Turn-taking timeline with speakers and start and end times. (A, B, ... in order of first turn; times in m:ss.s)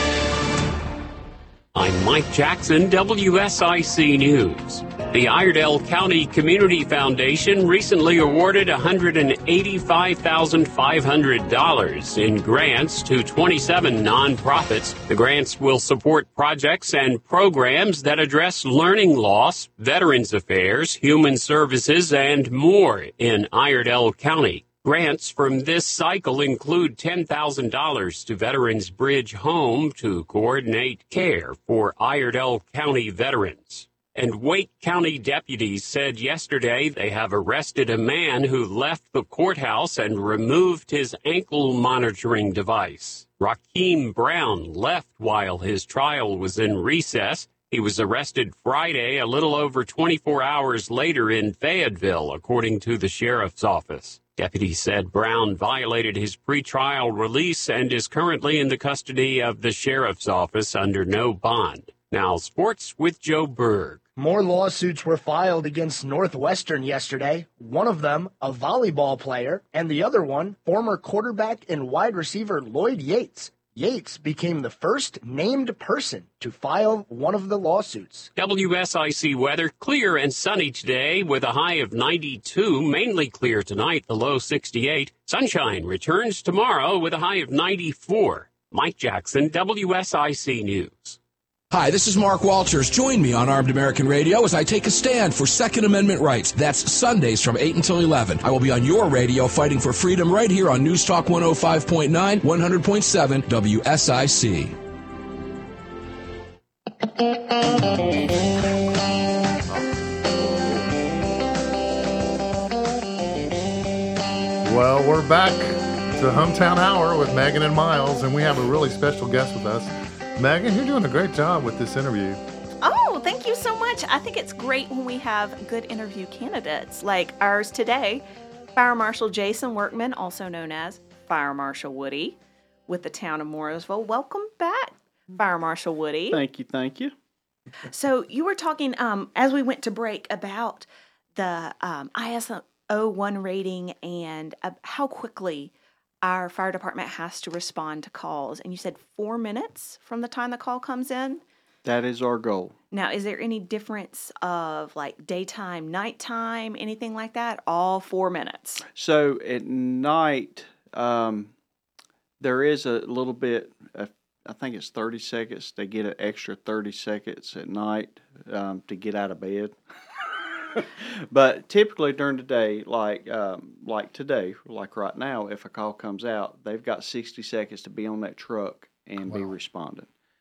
0:01.7-1:04.0 A
1:04.2-1:18.3 B
1:18.4-1:31.2 A
1:31.7-1:44.8 C
1:50.4-1:50.8 D
1:54.6-2:02.4 E
2:02.8-2:08.2 F
2:08.8-2:12.4 F
2:12.9-2:16.4 F
2:16.3-2:17.1 D
2:17.9-2:25.7 F
2:26.2-2:31.4 F
2:31.8-2:32.8 D
2:32.9-2:38.8 F
2:39.0-2:41.5 D
2:42.4-2:49.8 D
2:50.7-3:00.1 D
2:59.3-2:59.5 E